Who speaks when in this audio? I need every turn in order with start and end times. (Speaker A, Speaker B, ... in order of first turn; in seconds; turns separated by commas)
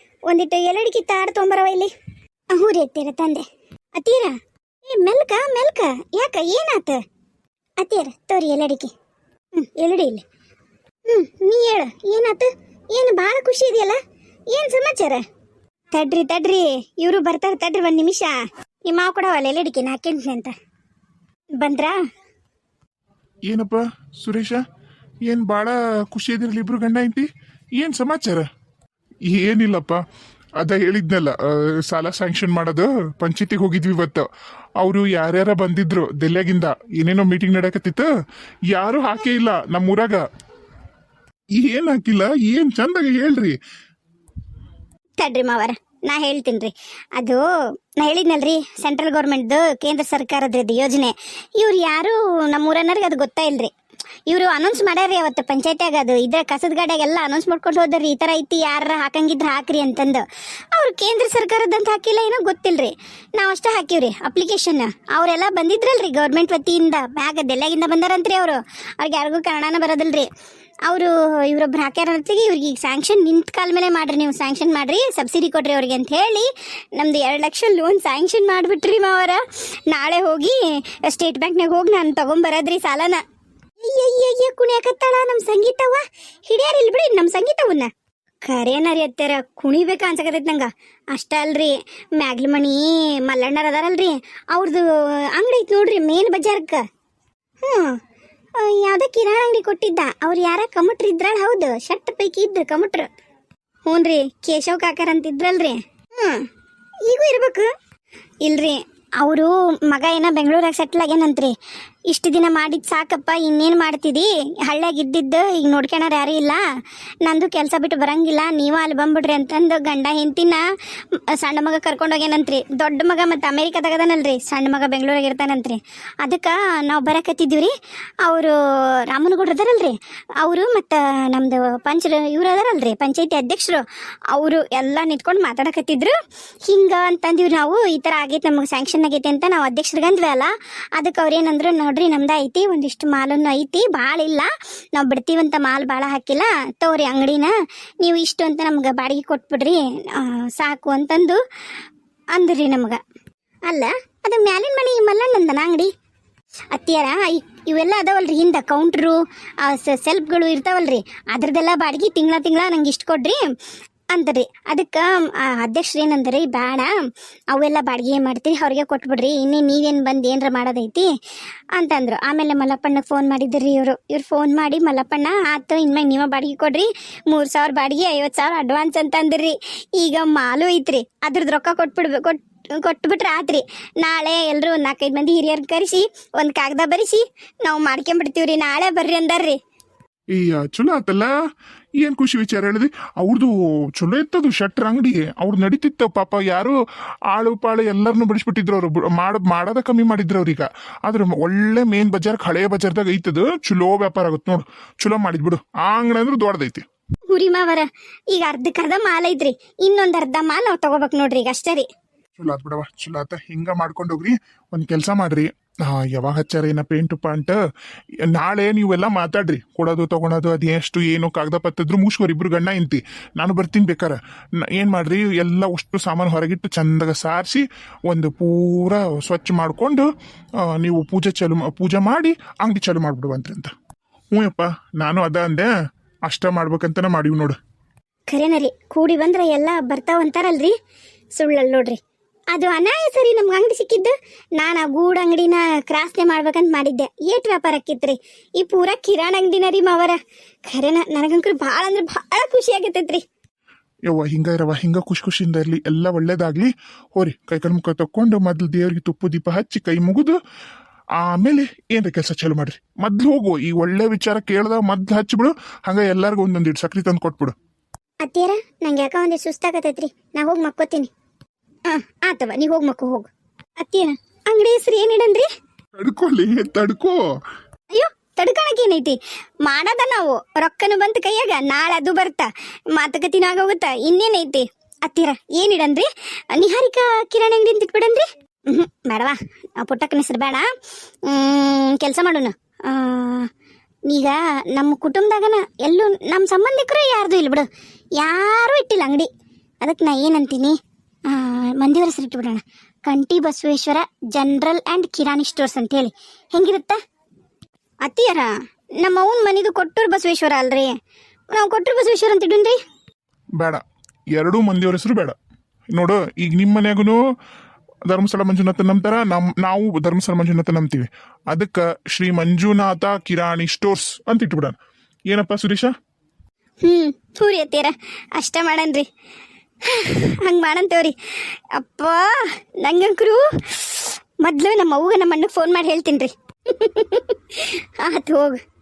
Speaker A: 0.3-1.9, Speaker A: 2.5-7.0, Speaker A: 7.8-8.9, Speaker A: 9.5-10.2, Speaker A: 11.1-15.2, Speaker A: 15.9-20.5, Speaker A: 21.5-22.0, Speaker B: 23.5-24.6, Speaker B: 25.3-28.5, Speaker B: 29.3-30.0, Speaker B: 30.6-34.3, Speaker B: 34.8-38.1, Speaker B: 38.7-40.2, Speaker B: 41.6-43.6, Speaker A: 45.2-47.4, Speaker A: 48.0-53.7, Speaker A: 54.3-70.3, Speaker A: 70.9-83.2, Speaker A: 83.8-87.9, Speaker A: 88.4-96.8, Speaker A: 97.6-98.0, Speaker A: 98.5-103.1, Speaker A: 103.8-106.5, Speaker A: 107.0-107.7, Speaker A: 108.4-111.5, Speaker A: 112.1-116.6, Speaker A: 117.2-136.1, Speaker A: 136.7-151.4, Speaker A: 152.3-153.0, Speaker A: 153.7-155.9, Speaker A: 156.7-163.5, Speaker A: 164.1-166.9, Speaker A: 167.5-171.1, Speaker A: 171.8-189.6, Speaker B: 190.3-191.3, Speaker B: 192.0-196.8, Speaker B: 197.3-206.8, Speaker A: 207.3-211.9, Speaker B: 212.4-217.6, Speaker B: 218.2-230.1, Speaker B: 230.6-233.7, Speaker B: 234.3-235.7, Speaker B: 236.3-237.6, Speaker A: 238.3-240.8, Speaker A: 241.4-242.0, Speaker A: 242.5-253.2, Speaker B: 254.1-260.4, Speaker B: 261.2-267.5, Speaker A: 268.2-271.1, Speaker A: 271.9-273.3, Speaker A: 273.8-275.5, Speaker B: 275.9-277.2, Speaker A: 277.9-290.7, Speaker A: 291.2-293.5, Speaker A: 294.1-299.3, Speaker A: 299.8-307.0, Speaker A: 308.0-311.0, Speaker A: 311.5-312.8, Speaker B: 314.3-315.4, Speaker B: 315.9-317.2, Speaker B: 318.1-324.8, Speaker B: 325.3-325.9, Speaker A: 326.8-329.1, Speaker A: 329.8-338.6